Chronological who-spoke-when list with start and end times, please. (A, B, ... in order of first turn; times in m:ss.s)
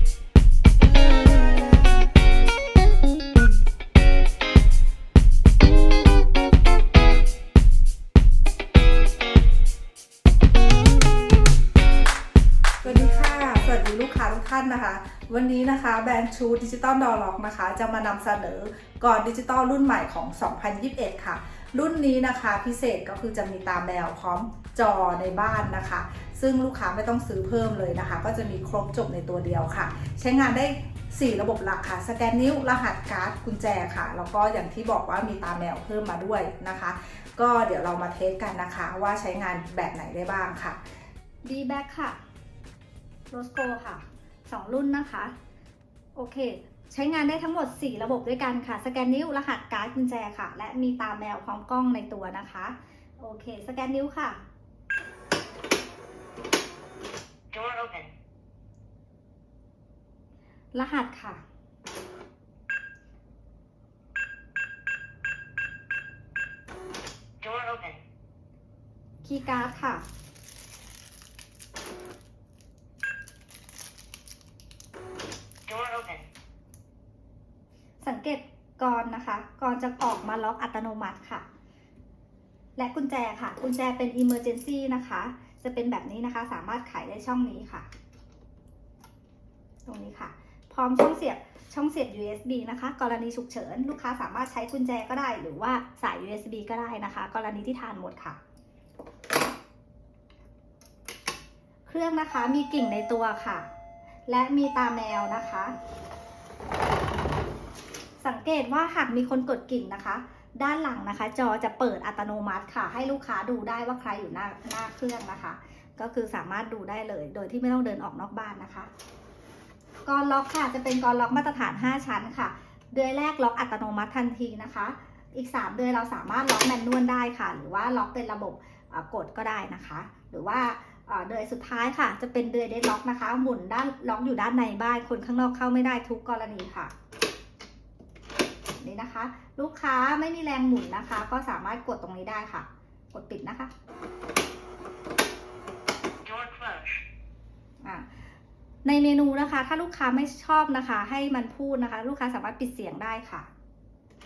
0:12.8-0:40.8 A
0:41.4-0:42.2 B
0:43.3-0:45.3 B
0:46.1-0:54.4 B
0:57.5-0:58.1 C
1:00.7-1:01.4 B
1:07.4-1:08.0 C
1:09.2-1:10.0 B
1:15.6-1:16.3 C
1:18.0-1:21.4 B
1:22.8-1:27.9 B
1:29.8-1:38.4 B
1:41.9-1:43.7 B
1:44.3-1:45.8 B
1:48.2-1:58.9 B
2:00.0-2:16.9 B
2:18.8-2:23.7 B
2:26.2-2:27.0 C
2:27.8-2:28.1 B
2:28.8-2:33.5 B